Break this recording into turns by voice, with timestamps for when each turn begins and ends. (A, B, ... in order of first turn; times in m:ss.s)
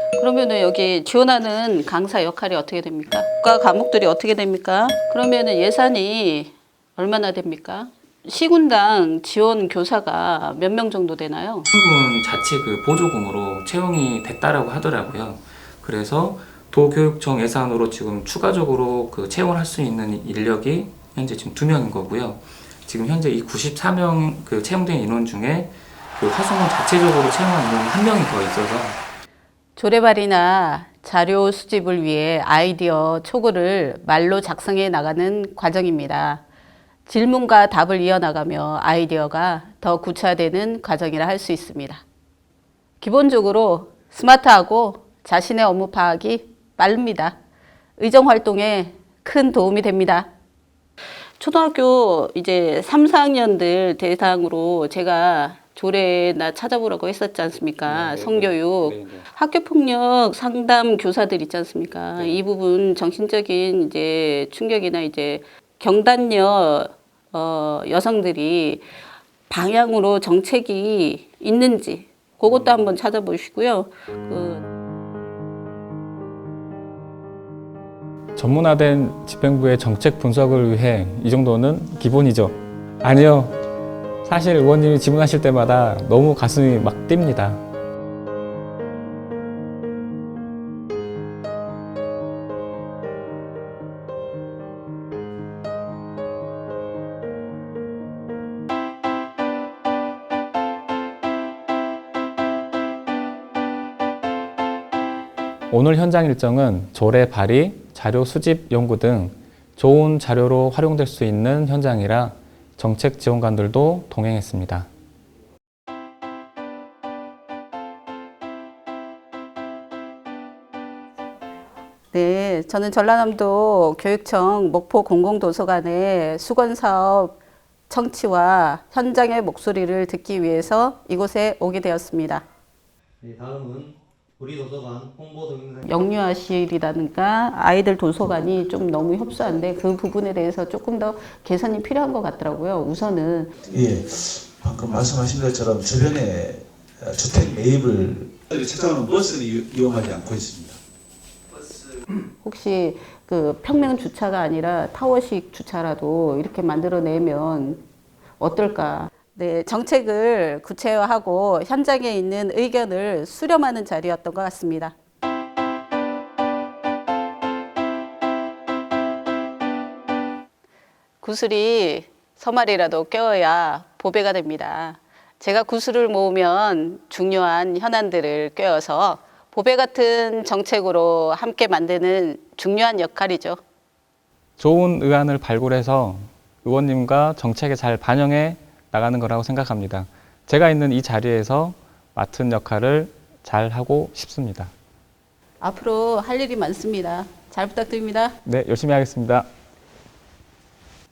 0:00.2-0:11.7 A
0:11.7-0:29.0 B
0:29.8-0:36.4 A
0:37.1-0:42.0 A
0:43.0-0:47.4 A
0:48.0-0:50.3 A
0:51.4-1:08.9 A
0:57.9-0:59.2 B
1:09.5-1:14.6 A
1:18.4-1:23.6 B
1:24.2-1:27.6 B
1:45.7-1:54.9 B
2:02.1-2:07.4 A
2:07.9-2:12.4 A
2:13.2-2:15.8 C
2:15.9-2:23.5 A
2:23.7-2:30.8 D
2:32.4-2:37.8 A
2:38.4-2:45.0 A
2:51.2-3:03.6 A
3:04.6-3:14.7 B
3:15.6-3:18.4 A
3:18.4-3:19.5 B